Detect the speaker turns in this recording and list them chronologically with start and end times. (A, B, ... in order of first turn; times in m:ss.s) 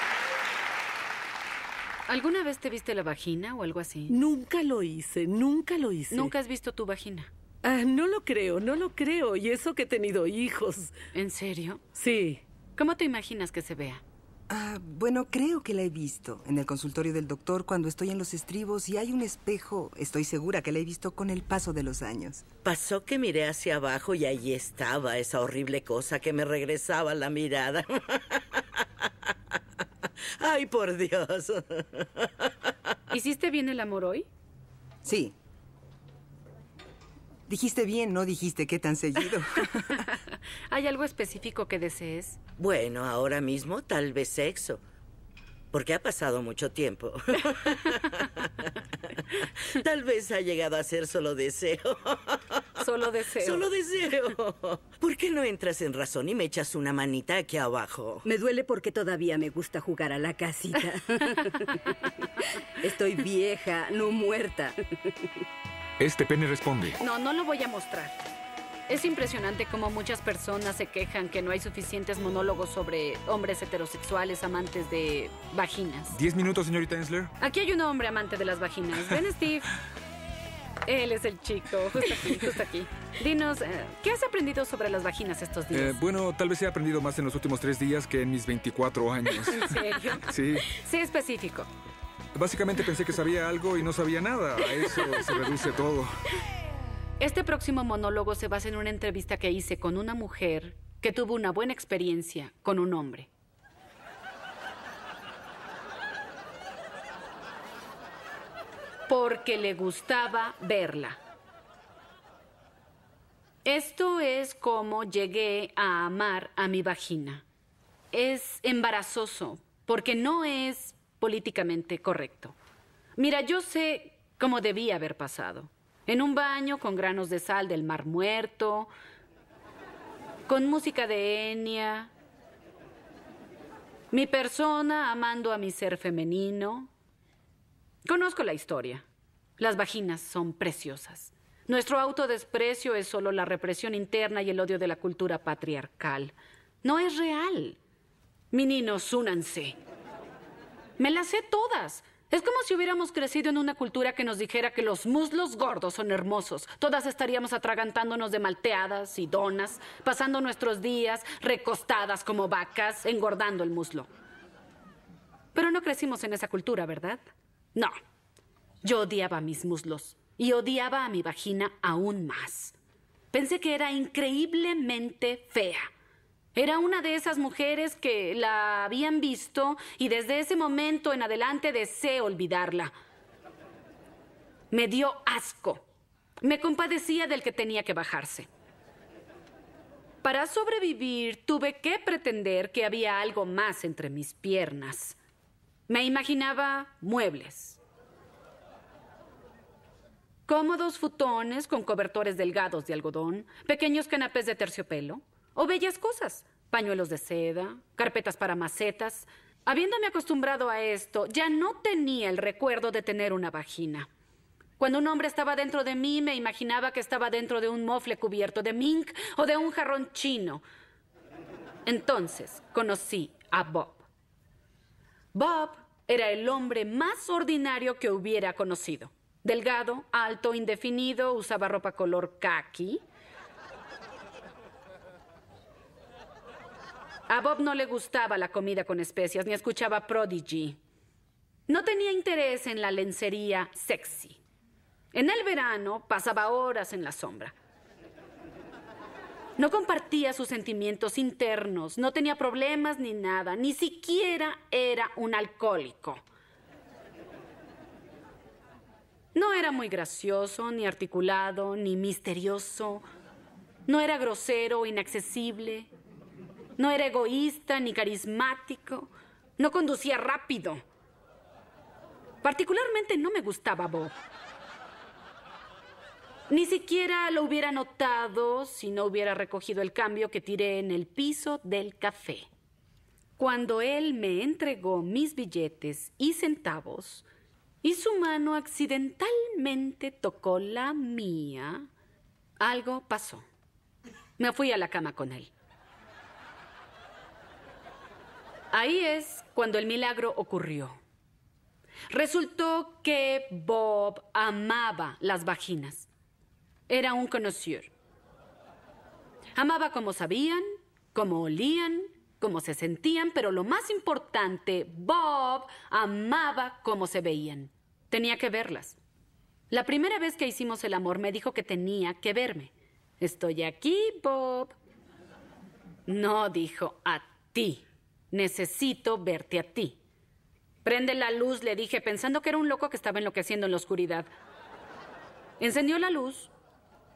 0:02.1-0:04.2 A
0:04.1-0:06.1 B
0:06.1-0:07.3 A
0:07.6-0:10.9 B
0:11.1-0:11.8 A
0:12.0-0:12.4 B
0:12.8-0:14.0 A
0:14.5-0:22.4 C
0:22.6-0:28.6 D
0:30.4-0:32.5 D
0:33.1-0:34.3 A
0:35.0-0:35.3 C
0:37.5-0:40.0 C
0:39.2-0:42.4 A
0:42.6-0:44.8 D
0:45.7-0:52.6 D
0:52.8-0:53.7 A
0:53.4-0:58.3 D
0:58.3-1:01.4 E
1:02.8-1:05.0 E
1:06.0-1:07.0 F
1:07.0-1:08.2 A
1:08.9-1:16.2 A
1:16.1-1:17.3 F
1:17.4-1:19.7 A
1:20.8-1:26.0 A
1:25.7-1:30.7 F
1:29.5-1:31.7 A
1:32.3-1:36.1 F
1:37.2-1:43.3 A
1:49.1-1:51.2 A
1:53.6-1:57.4 A
1:58.1-2:02.6 A
2:03.2-2:08.9 A
2:10.5-2:12.1 A
2:14.1-2:16.9 A
2:18.0-2:19.0 A
2:19.6-2:27.8 A
2:28.5-2:29.8 A
2:31.0-2:44.1 A
2:45.5-2:47.2 A
2:48.8-2:52.8 A
2:53.3-2:55.9 A
2:56.5-3:02.9 A
3:04.7-3:05.8 A
3:06.4-3:08.5 A
3:10.2-3:15.2 A
3:15.9-3:17.8 A
3:20.5-3:34.1 A
3:34.8-3:40.6 A
3:41.8-3:44.0 A
3:45.3-3:53.0 A
3:57.3-4:00.8 A
4:01.7-4:04.4 A
4:05.1-4:07.5 A
4:09.6-4:16.2 A
4:19.3-4:23.0 A
4:23.9-4:25.9 A
4:26.8-4:30.8 A
4:32.4-4:34.1 A
4:36.5-4:42.5 A
4:43.4-4:47.2 A
4:47.8-4:51.9 A
4:52.6-4:53.4 A
4:54.4-4:55.5 A
4:58.7-5:01.0 A
5:02.1-5:06.1 A
5:06.9-5:07.9 A
5:09.5-5:19.0 A
5:19.7-5:24.8 A
5:26.1-5:30.0 A
5:30.8-5:34.3 A
5:35.6-5:36.5 A